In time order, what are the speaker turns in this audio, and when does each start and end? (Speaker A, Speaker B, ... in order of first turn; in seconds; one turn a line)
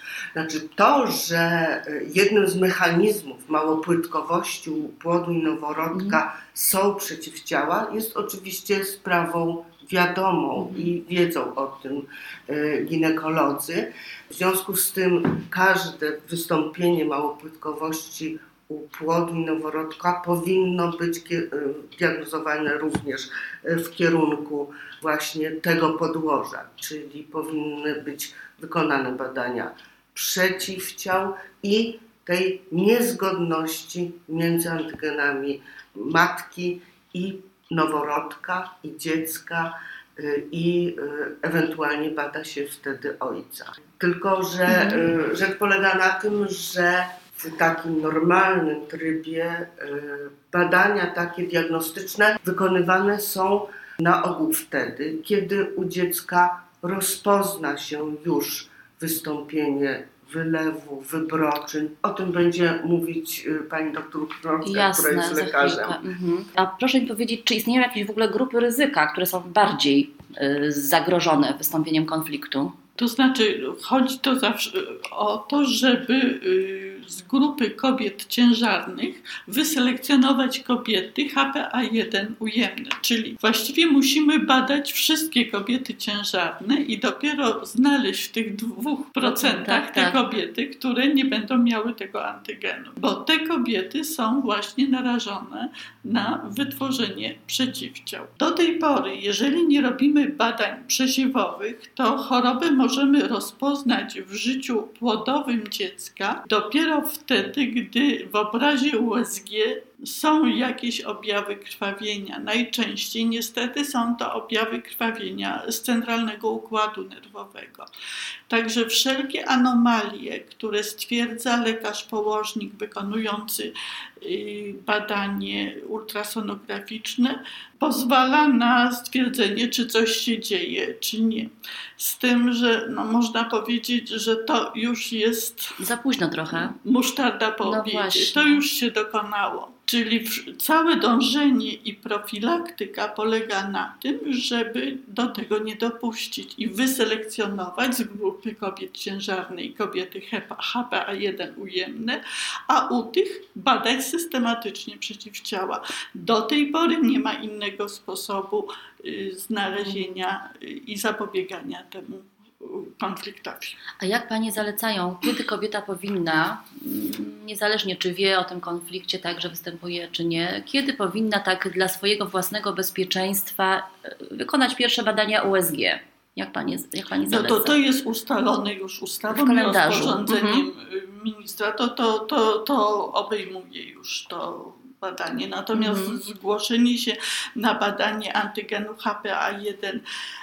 Speaker A: 0.3-66.0
Speaker B: 5.9-6.2
Speaker B: 10.6-10.9
Speaker B: 44.7-45.1
Speaker B: 64.6-72.8
Speaker C: 73.0-117.9
Speaker B: 89.2-90.2
Speaker C: 118.5-135.7
Speaker B: 135.8-136.8
Speaker C: 136.6-163.8
Speaker B: 137.6-138.6
Speaker B: 159.9-160.2
Speaker B: 164.0-177.8
Speaker C: 177.3-190.0
Speaker B: 179.3-180.7
Speaker B: 185.7-186.2